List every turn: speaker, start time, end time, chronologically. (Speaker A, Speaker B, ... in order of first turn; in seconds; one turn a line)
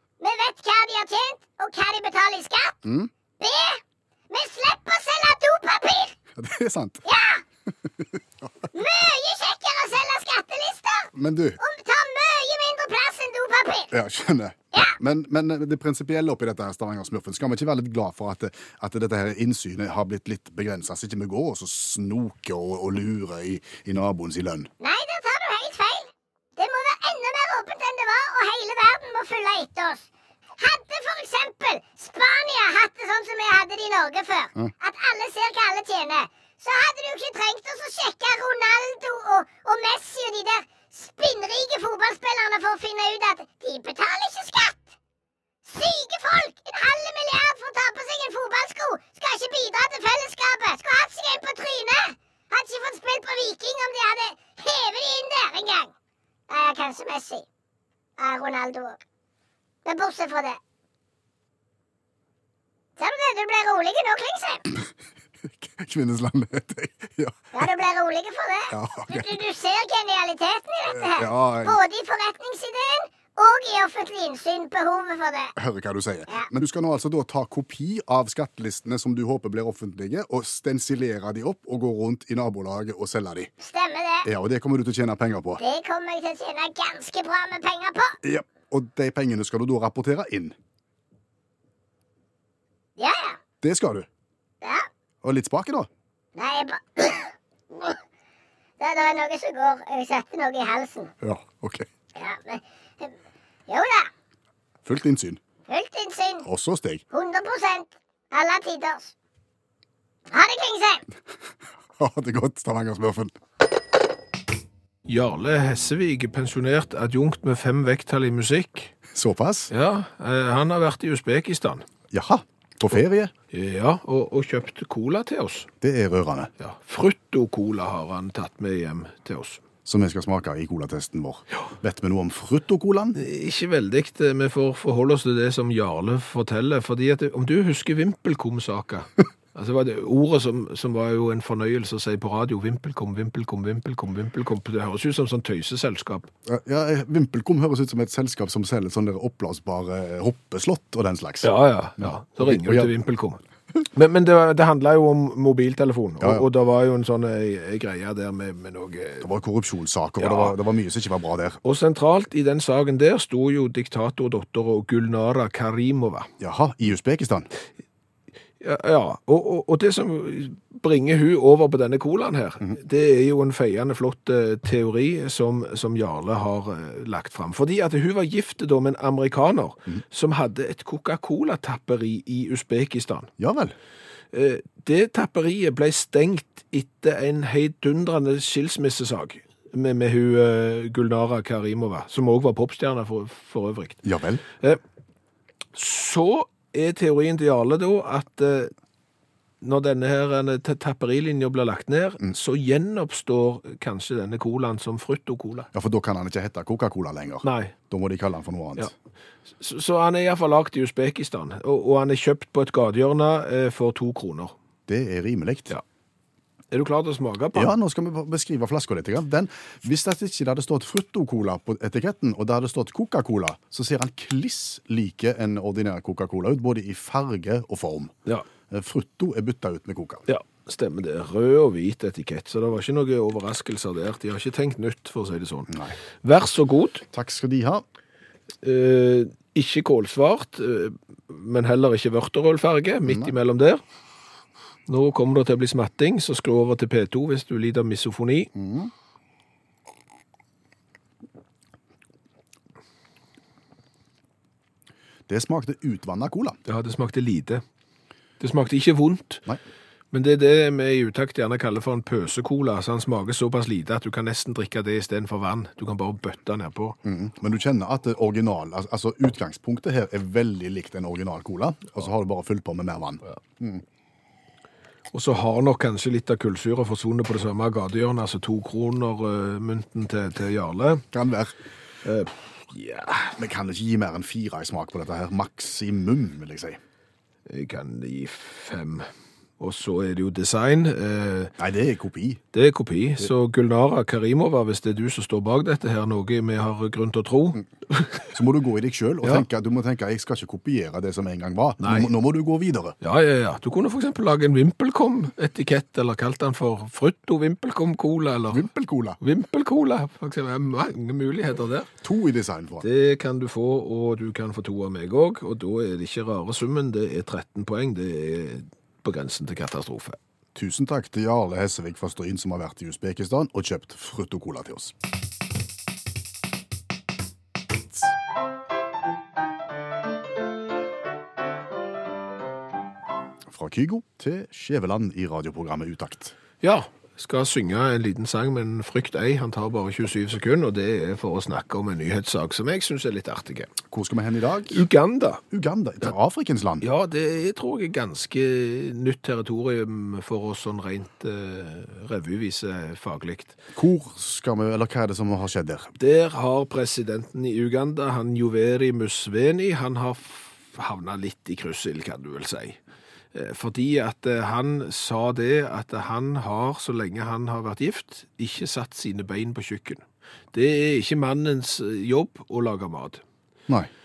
Speaker A: 0.2-2.7
Speaker B: 2.8-3.1
Speaker A: 3.4-6.2
Speaker B: 6.3-7.0
Speaker A: 7.0-7.4
Speaker B: 7.7-8.4
Speaker A: 8.7-13.9
Speaker B: 11.1-11.6
Speaker B: 13.9-24.7
Speaker A: 24.8-30.1
Speaker A: 30.6-44.8
Speaker A: 45.6-55.9
Speaker A: 56.5-57.4
Speaker A: 58.2-59.0
Speaker A: 59.9-60.6
Speaker A: 63.0-64.7
Speaker B: 65.5-67.7
Speaker A: 67.5-75.5
Speaker B: 68.7-69.3
Speaker B: 70.9-71.8
Speaker B: 75.6-83.5
Speaker A: 83.6-84.3
Speaker B: 84.2-85.6
Speaker A: 85.6-88.2
Speaker B: 88.2-90.5
Speaker A: 93.0-93.4
Speaker B: 93.6-94.1
Speaker A: 94.6-94.9
Speaker B: 95.2-95.9
Speaker A: 96.3-98.0
Speaker A: 98.8-101.1
Speaker B: 101.2-101.9
Speaker A: 102.1-103.1
Speaker A: 103.7-104.1
Speaker B: 104.8-105.4
Speaker A: 105.7-106.4
Speaker B: 106.4-107.0
Speaker A: 107.1-109.1
Speaker A: 110.3-111.0
Speaker B: 112.0-113.3
Speaker C: 115.1-118.9
Speaker B: 119.1-119.7
Speaker C: 119.7-121.8
Speaker B: 122.1-123.3
Speaker C: 123.5-125.7
Speaker B: 125.8-126.5
Speaker C: 126.6-129.6
Speaker B: 129.8-133.2
Speaker C: 133.2-146.3
Speaker B: 146.5-152.9
Speaker C: 151.4-153.4
Speaker C: 153.9-159.3
Speaker B: 156.2-156.5
Speaker B: 159.2-161.6
Speaker C: 160.2-160.6
Speaker C: 161.6-166.3
Speaker B: 166.4-167.5
Speaker C: 168.6-183.3
Speaker B: 183.4-183.7
Speaker C: 184.3-194.0
Speaker B: 194.0-194.4
Speaker C: 195.7-198.7
Speaker C: 199.6-205.7
Speaker B: 205.7-208.9
Speaker C: 207.4-207.7
Speaker C: 209.6-214.5
Speaker B: 214.9-215.7
Speaker C: 216.7-217.7
Speaker B: 217.5-228.1
Speaker B: 228.7-230.2
Speaker C: 230.3-237.0
Speaker B: 235.7-235.9
Speaker B: 237.1-237.8
Speaker C: 238.6-243.8
Speaker B: 243.1-243.3
Speaker C: 244.9-248.5
Speaker B: 248.5-248.9
Speaker B: 255.3-256.6
Speaker C: 256.6-257.6
Speaker C: 258.4-259.4
Speaker C: 260.1-267.0
Speaker B: 267.0-273.8
Speaker C: 275.1-281.0
Speaker B: 281.1-281.5
Speaker C: 282.0-283.4
Speaker B: 283.4-286.8
Speaker C: 287.5-289.1
Speaker C: 289.6-291.5
Speaker B: 291.6-292.4
Speaker C: 292.5-298.3
Speaker B: 298.3-302.9
Speaker C: 301.8-302.1
Speaker C: 303.0-308.7
Speaker B: 308.5-309.2
Speaker C: 309.2-311.9
Speaker B: 312.0-312.9
Speaker C: 312.8-320.2
Speaker B: 320.5-324.9
Speaker B: 333.5-336.3
Speaker C: 336.6-343.7
Speaker B: 343.9-344.8
Speaker C: 344.7-345.4
Speaker B: 345.5-346.8
Speaker C: 346.8-353.6
Speaker B: 353.7-355.9
Speaker C: 356.0-362.8
Speaker C: 363.3-373.2